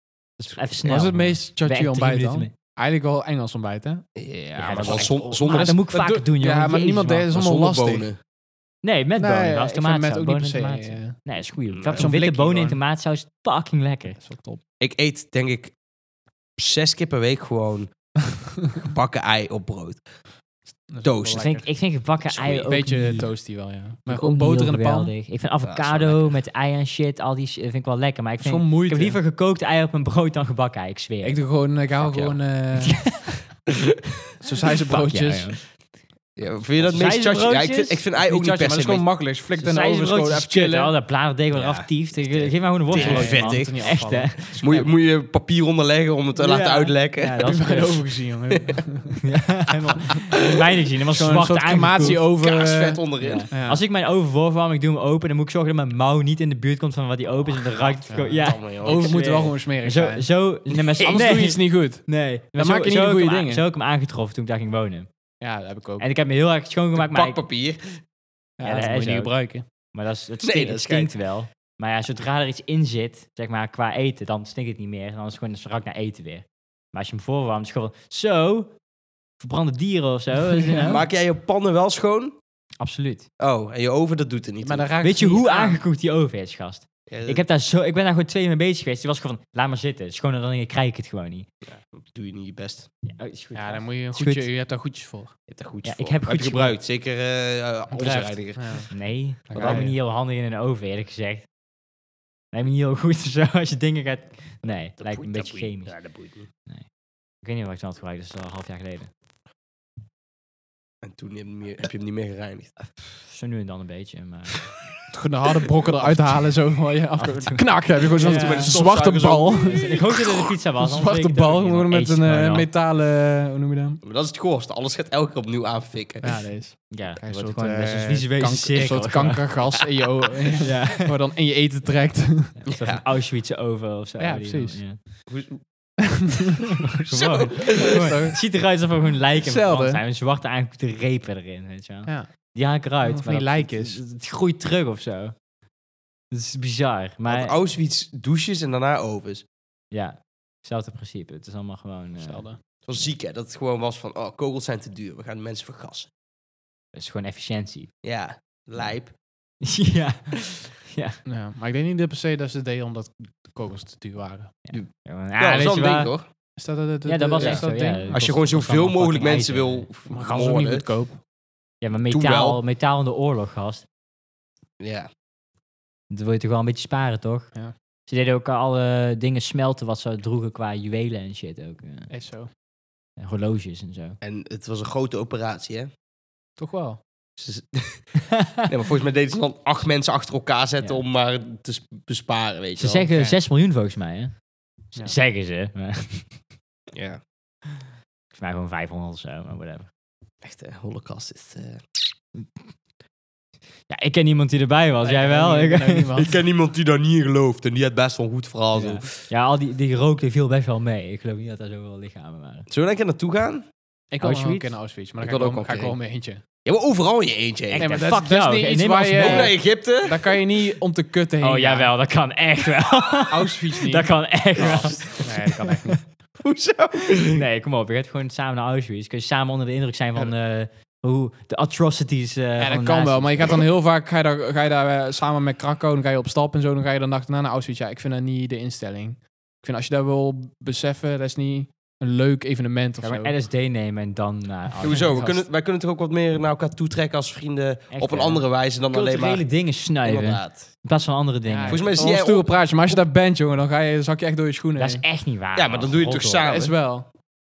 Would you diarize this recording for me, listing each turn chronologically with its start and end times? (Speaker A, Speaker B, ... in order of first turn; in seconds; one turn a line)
Speaker A: 0.4-2.5
Speaker B: 0.8-4.1
Speaker C: 4.2-5.8
Speaker A: 4.6-7.3
Speaker B: 5.4-8.1
Speaker C: 7.3-8.2
Speaker A: 8.8-14.2
Speaker B: 9.2-11.2
Speaker C: 11.7-12.1
Speaker B: 11.9-12.8
Speaker B: 14.2-14.6
Speaker C: 14.8-15.8
Speaker C: 16.6-17.9
Speaker C: 18.8-20.1
Speaker B: 20.9-21.7
Speaker C: 21.0-21.5
Speaker A: 21.3-23.3
Speaker C: 22.3-22.7
Speaker B: 22.7-25.1
Speaker A: 24.1-31.4
Speaker C: 25.6-26.4
Speaker B: 28.4-29.2
Speaker B: 31.2-33.3
Speaker C: 32.0-32.4
Speaker A: 32.8-33.3
Speaker B: 34.4-35.6
Speaker A: 34.9-35.8
Speaker C: 36.4-39.1
Speaker A: 36.8-38.0
Speaker B: 38.2-40.9
Speaker A: 39.5-44.9
Speaker C: 41.5-47.6
Speaker B: 42.9-44.8
Speaker A: 46.4-48.1
Speaker B: 47.4-49.2
Speaker C: 48.5-48.8
Speaker A: 49.2-52.2
Speaker B: 51.1-53.8
Speaker C: 52.0-53.5
Speaker A: 53.2-65.1
Speaker C: 57.5-59.2
Speaker B: 58.1-60.3
Speaker B: 61.0-63.6
Speaker B: 65.4-66.1
Speaker A: 66.0-67.4
Speaker C: 67.0-68.0
Speaker B: 68.6-69.7
Speaker A: 68.6-69.3
Speaker A: 69.9-78.7
Speaker C: 70.4-71.1
Speaker A: 79.4-81.0
Speaker B: 80.7-81.0
Speaker C: 80.8-82.4
Speaker A: 82.8-83.3
Speaker C: 83.4-84.9
Speaker B: 84.6-85.8
Speaker A: 85.0-91.5
Speaker C: 87.1-87.4
Speaker C: 91.7-92.9
Speaker A: 93.1-94.5
Speaker B: 93.5-95.3
Speaker C: 95.5-98.9
Speaker A: 95.8-96.8
Speaker A: 97.9-101.5
Speaker B: 98.6-98.9
Speaker B: 99.5-100.0
Speaker C: 99.5-99.9
Speaker A: 102.5-106.1
Speaker C: 105.0-106.5
Speaker A: 107.4-109.1
Speaker C: 111.0-112.8
Speaker A: 113.2-114.8
Speaker B: 115.1-120.0
Speaker A: 117.2-118.8
Speaker C: 118.2-120.3
Speaker A: 119.7-122.7
Speaker B: 120.8-124.0
Speaker C: 124.0-126.4
Speaker B: 126.2-132.6
Speaker A: 126.9-129.7
Speaker A: 130.6-131.2
Speaker A: 132.6-135.0
Speaker C: 132.7-133.0
Speaker B: 134.2-134.9
Speaker C: 135.3-135.6
Speaker A: 136.9-145.4
Speaker C: 137.1-138.1
Speaker B: 137.8-138.4
Speaker B: 139.4-140.0
Speaker B: 142.1-142.3
Speaker B: 143.0-144.0
Speaker A: 146.3-147.6
Speaker C: 147.3-149.5
Speaker A: 149.9-153.1
Speaker B: 152.2-152.6
Speaker C: 152.8-156.1
Speaker A: 156.9-157.9
Speaker C: 158.0-159.1
Speaker A: 159.6-161.2
Speaker B: 161.3-164.6
Speaker A: 164.7-166.1
Speaker C: 164.7-166.3
Speaker B: 166.6-168.3
Speaker A: 167.1-169.9
Speaker C: 167.4-170.9
Speaker B: 170.1-171.2
Speaker A: 171.8-173.9
Speaker C: 172.1-172.6
Speaker C: 174.8-175.1
Speaker A: 176.1-182.1
Speaker B: 182.1-182.5
Speaker A: 183.2-184.2
Speaker C: 184.2-185.9
Speaker B: 186.6-187.0
Speaker C: 187.4-193.1
Speaker A: 192.8-194.4
Speaker B: 193.1-193.4
Speaker A: 194.9-196.4
Speaker C: 196.9-197.2
Speaker A: 198.3-199.9
Speaker C: 200.4-202.0
Speaker A: 203.9-206.2
Speaker B: 205.0-206.4
Speaker C: 206.2-209.2
Speaker A: 208.8-212.7
Speaker C: 212.7-213.7
Speaker B: 214.1-216.4
Speaker A: 214.2-214.7
Speaker C: 215.2-216.0
Speaker C: 216.7-217.9
Speaker A: 217.7-219.6
Speaker B: 217.7-221.9
Speaker C: 219.2-220.3
Speaker A: 221.4-226.0
Speaker B: 223.3-226.0
Speaker C: 224.6-225.2
Speaker C: 226.4-227.4
Speaker A: 227.2-233.6
Speaker B: 232.6-243.3
Speaker A: 243.0-245.4
Speaker C: 244.8-249.5
Speaker B: 244.9-245.2
Speaker A: 247.9-251.9
Speaker C: 250.0-250.6
Speaker B: 251.4-255.0
Speaker C: 251.7-252.7
Speaker A: 254.8-256.5
Speaker C: 255.6-256.8
Speaker B: 256.4-257.1